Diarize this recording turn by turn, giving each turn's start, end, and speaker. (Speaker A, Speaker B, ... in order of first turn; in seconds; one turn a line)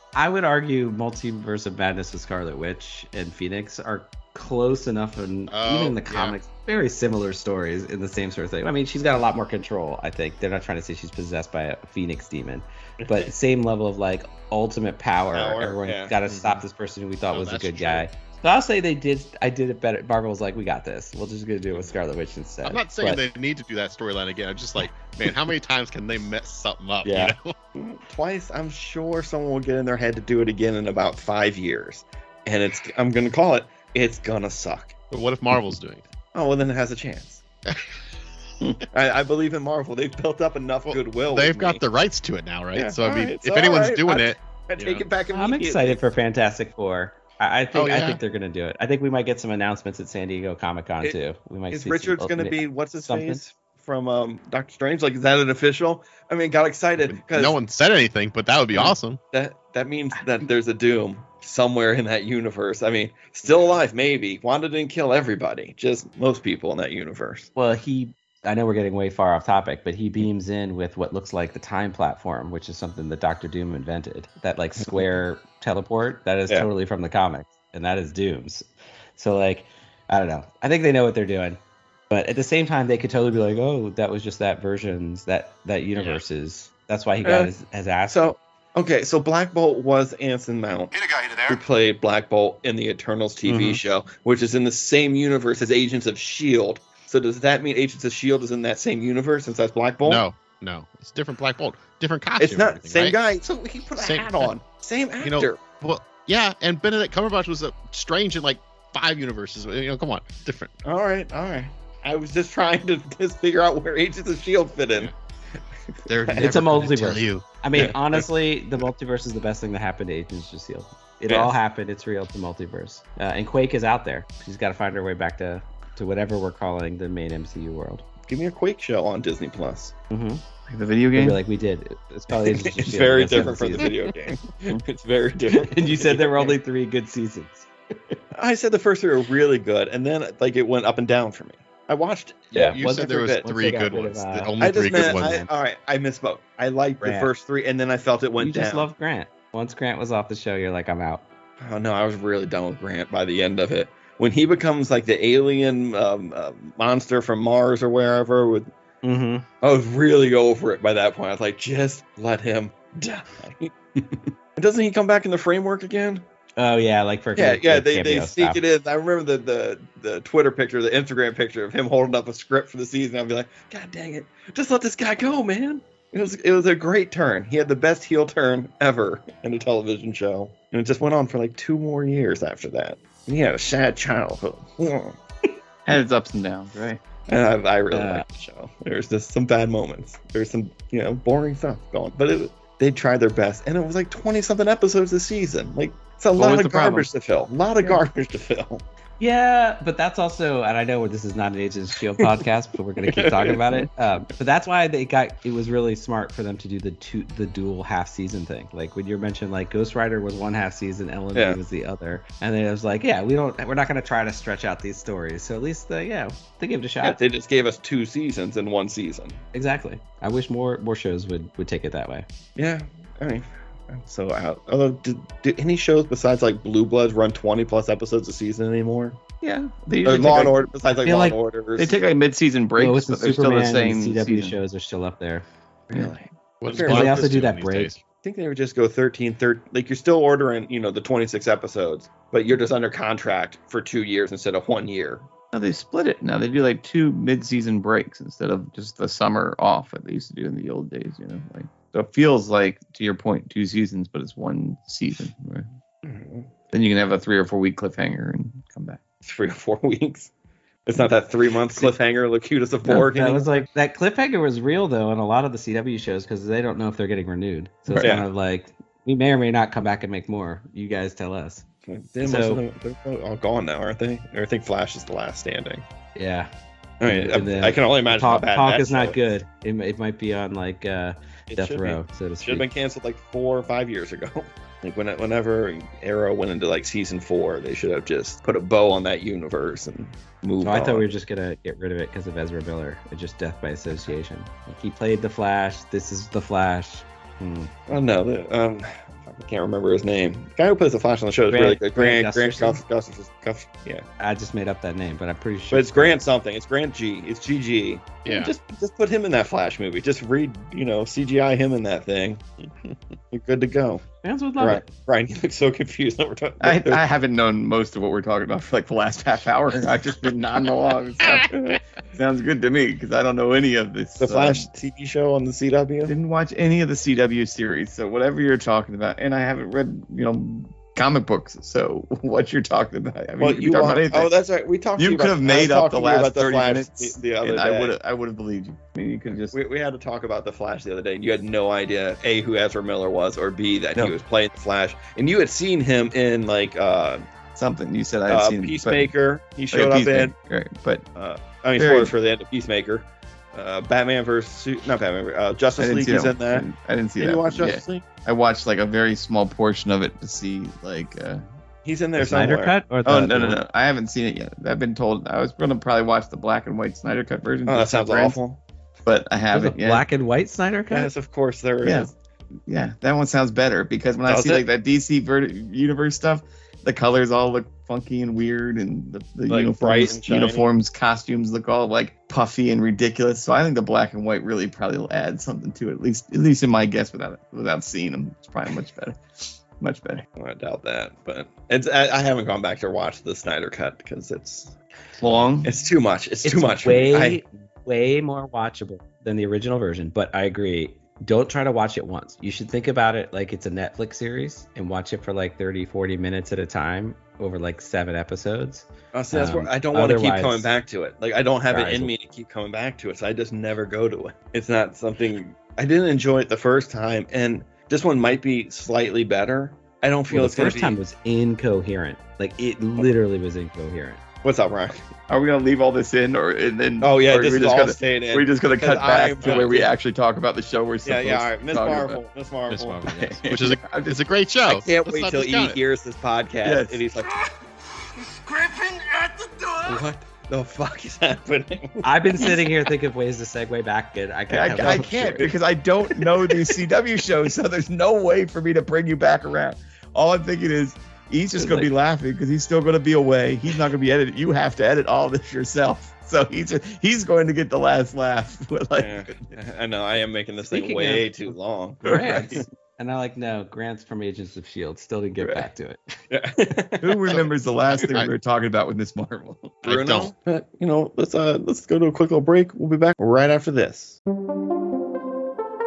Speaker A: 0.1-23.2
Speaker B: 5.5-6.4
Speaker C: 15.3-16.1
Speaker B: 16.3-16.6
Speaker B: 17.3-18.1
Speaker B: 22.6-27.5
Speaker A: 27.0-27.3
Speaker C: 27.8-35.0
Speaker B: 35.1-36.0
Speaker C: 36.3-37.4
Speaker C: 38.9-41.8
Speaker B: 40.9-45.0
Speaker C: 42.8-46.0
Speaker A: 45.3-53.4
Speaker B: 47.7-48.2
Speaker C: 51.7-57.6
Speaker B: 57.0-59.2
Speaker C: 58.7-67.5
Speaker A: 67.6-88.3
Speaker C: 87.2-87.5
Speaker C: 88.1-91.0
Speaker D: 91.0-91.6
Speaker C: 91.5-100.2
Speaker A: 93.5-93.8
Speaker B: 100.0-103.2
Speaker C: 102.4-105.6
Speaker B: 104.0-104.5
Speaker B: 105.2-110.7
Speaker C: 110.8-115.1
Speaker C: 116.0-116.7
Speaker B: 116.1-117.5
Speaker A: 116.3-128.1
Speaker C: 128.3-129.9
Speaker A: 130.1-130.4
Speaker E: 130.7-131.4
Speaker A: 131.1-134.0
Speaker C: 132.4-136.6
Speaker A: 135.5-138.2
Speaker C: 138.3-143.5
Speaker A: 142.5-145.5
Speaker B: 142.5-145.5
Speaker C: 144.6-148.9
Speaker A: 147.0-147.3
Speaker A: 148.4-151.3
Speaker C: 151.6-158.7
Speaker A: 159.0-159.4
Speaker C: 159.6-163.7
Speaker C: 164.6-166.2
Speaker A: 166.6-168.6
Speaker C: 167.4-185.2
Speaker E: 185.9-187.0
Speaker C: 187.3-198.8
Speaker A: 187.9-188.2
Speaker E: 196.3-197.1
Speaker A: 199.2-217.2
Speaker C: 203.1-203.6
Speaker C: 211.3-211.6
Speaker C: 217.0-219.4
Speaker A: 219.5-222.2
Speaker C: 222.6-229.2
Speaker E: 229.4-230.7
Speaker C: 230.0-231.9
Speaker A: 231.0-231.4
Speaker E: 231.8-234.6
Speaker A: 232.8-235.4
Speaker C: 235.9-237.3
Speaker B: 236.6-238.0
Speaker A: 236.8-238.0
Speaker C: 238.2-245.3
Speaker E: 245.5-255.7
Speaker C: 256.0-256.5
Speaker E: 256.7-259.0
Speaker C: 259.2-260.3
Speaker C: 260.9-263.5
Speaker A: 262.9-271.6
Speaker E: 267.9-268.2
Speaker C: 268.0-268.3
Speaker C: 271.9-275.8
Speaker A: 272.2-272.6
Speaker A: 276.1-276.5
Speaker C: 277.0-279.2
Speaker A: 277.0-282.7
Speaker C: 281.5-291.1
Speaker A: 290.6-297.7
Speaker C: 297.9-304.1
Speaker A: 301.5-302.8
Speaker A: 304.2-306.2
Speaker C: 305.7-312.4
Speaker B: 308.3-308.5
Speaker C: 313.3-314.0
Speaker A: 314.2-314.9
Speaker C: 314.6-317.0
Speaker E: 316.6-324.7
Speaker C: 321.5-321.8
Speaker C: 324.2-326.1
Speaker E: 326.1-334.3
Speaker C: 333.4-338.0
Speaker E: 335.0-339.6
Speaker C: 339.5-347.2
Speaker E: 347.6-349.1
Speaker C: 348.3-350.3
Speaker E: 349.7-351.1
Speaker C: 351.2-356.7
Speaker E: 351.8-352.1
Speaker E: 355.8-361.4
Speaker C: 357.2-358.1
Speaker C: 361.9-362.8
Speaker A: 362.2-363.6
Speaker E: 363.1-368.4
Speaker C: 367.7-368.6
Speaker E: 369.1-370.1
Speaker A: 369.5-371.1
Speaker C: 370.9-372.1
Speaker E: 371.8-372.1
Speaker E: 372.7-390.2
Speaker C: 374.3-374.6
Speaker C: 379.5-380.7
Speaker C: 390.4-394.8
Speaker E: 395.2-395.8
Speaker C: 395.6-397.4
Speaker A: 396.4-410.7
Speaker C: 409.1-421.0
Speaker A: 411.7-412.1
Speaker A: 420.3-424.2
Speaker C: 424.4-425.1
Speaker E: 425.3-432.2
Speaker C: 427.0-429.9
Speaker B: 429.4-429.8
Speaker C: 431.1-433.1
Speaker B: 432.7-435.8
Speaker E: 433.1-434.2
Speaker C: 434.7-437.3
Speaker E: 436.6-437.0
Speaker D: 438.0-440.0
Speaker C: 439.9-442.7
Speaker A: 442.0-445.5
Speaker E: 444.5-459.5
Speaker C: 444.8-445.5
Speaker A: 451.6-451.9
Speaker C: 459.0-462.6
Speaker A: 460.7-461.3
Speaker E: 462.0-462.6
Speaker A: 462.0-466.0
Speaker C: 466.3-467.4
Speaker E: 467.0-469.8
Speaker B: 468.0-468.3
Speaker B: 469.8-470.3
Speaker C: 469.8-474.2